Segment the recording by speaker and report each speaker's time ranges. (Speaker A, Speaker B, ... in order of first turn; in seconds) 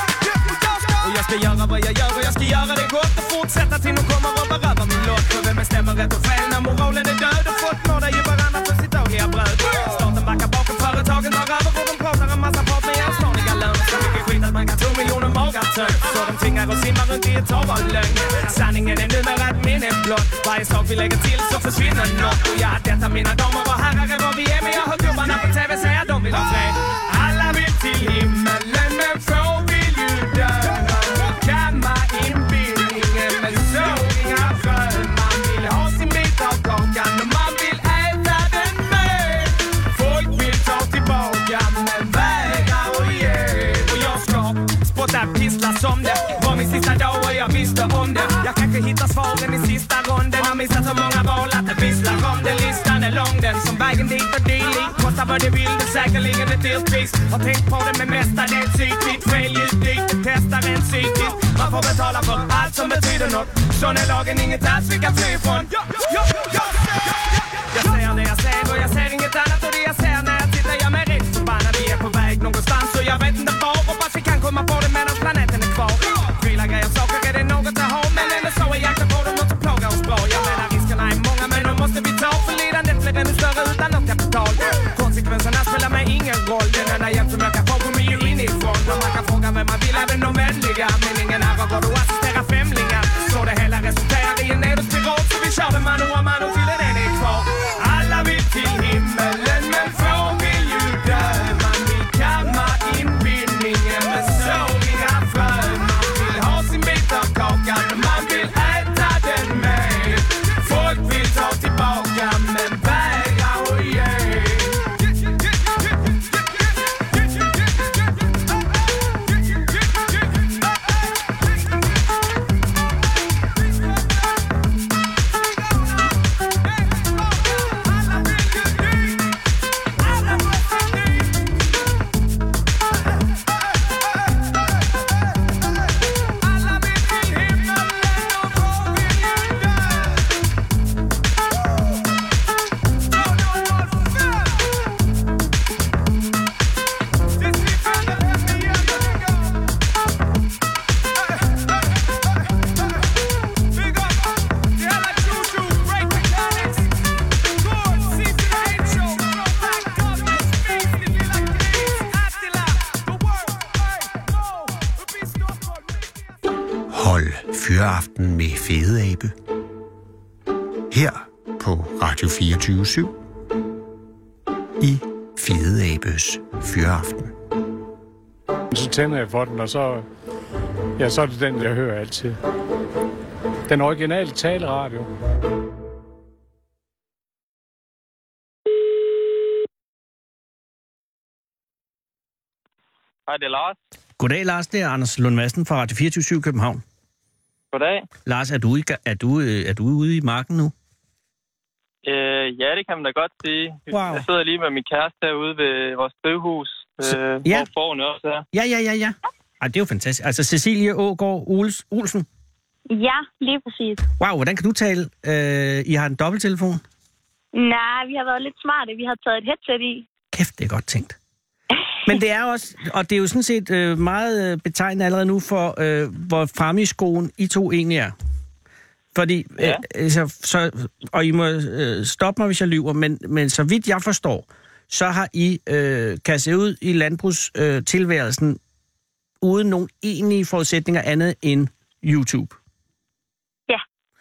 Speaker A: 0.8-67.1, 67.7-114.9, 136.8-139.8, 147.6-149.0, 154.9-156.8, 157.9-162.9
Speaker B: 166.9-169.3, 170.9-173.1, 174.8-177.3
Speaker C: 178.7-180.1, 181.0-182.4, 183.7-185.1
Speaker D: 193.3-193.8, 197.7-198.1, 202.0-208.4
Speaker E: 194.2-196.8, 198.2-200.7, 203.9-204.2, 207.0-207.7, 208.5-212.2, 214.2-216.8, 220.3-221.2, 222.0-228.1, 229.1-238.6, 239.4-242.6
Speaker F: 212.9-214.0, 217.5-220.1